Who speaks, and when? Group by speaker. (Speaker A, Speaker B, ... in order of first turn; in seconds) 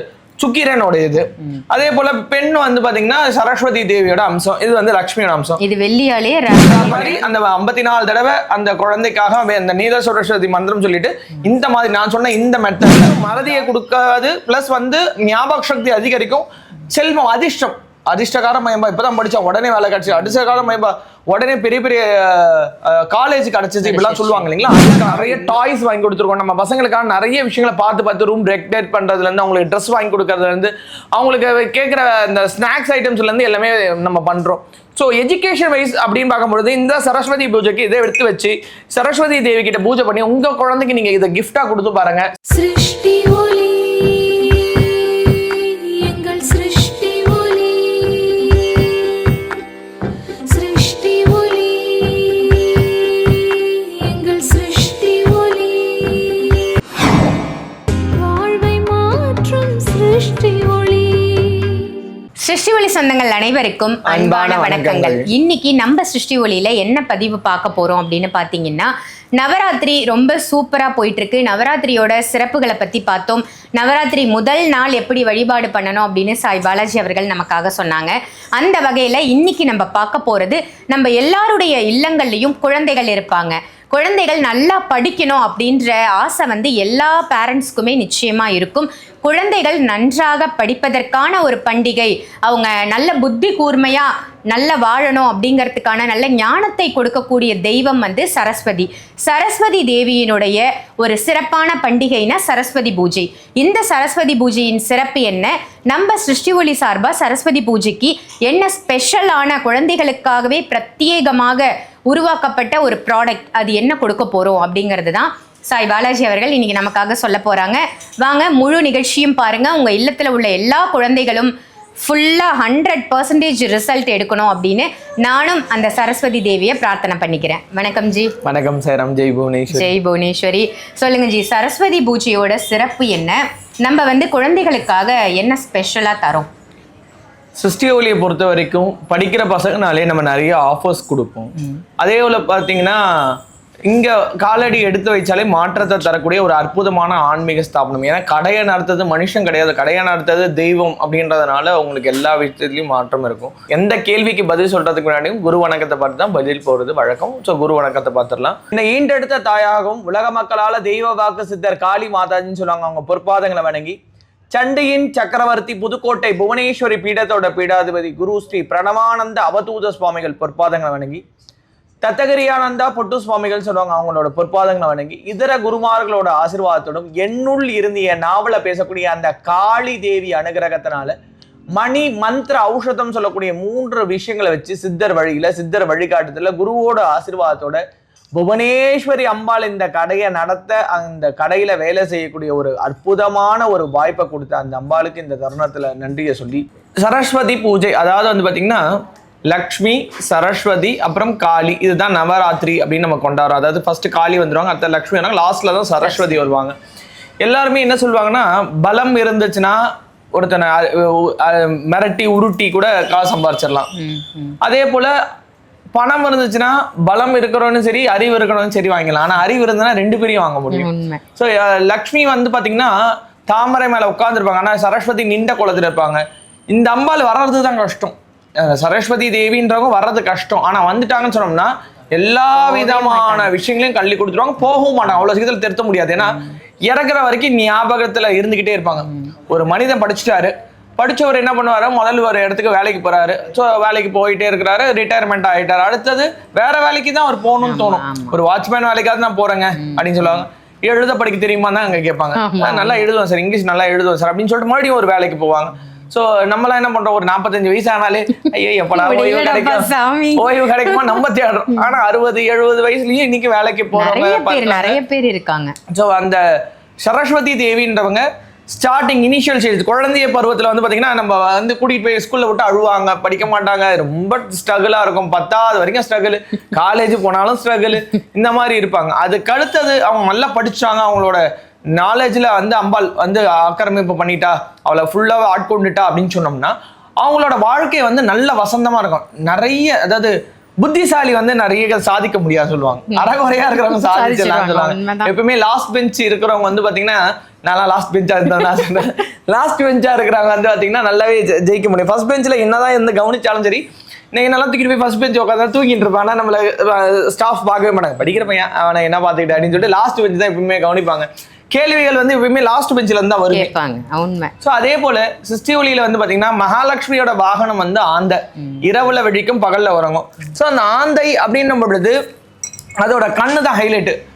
Speaker A: 0.4-5.6, 6.6-42.2, 64.0-65.3, 128.4-129.9, 137.6-143.3, 143.9-163.9, 164.5-171.2, 172.0-181.1, 181.7-187.8, 188.3-198.8, 199.5-206.8, 207.4-209.8, 210.3-213.9, 214.6-215.1, 215.9-222.9, 223.5-265.0, 265.9-266.4, 267.0-281.4, 281.9-313.7, 314.6-322.2, 323.0-324.1
Speaker B: 5.6-7.3, 23.8-25.6, 62.4-128.3, 129.7-136.5, 206.0-206.4, 213.9-214.6, 220.7-221.2, 232.5-233.5, 247.6-248.4, 249.8-250.0, 252.4-253.0, 258.9-261.2, 263.9-265.7, 293.1-295.3, 313.5-314.5
Speaker C: 42.5-49.5, 50.4-56.7, 58.1-62.0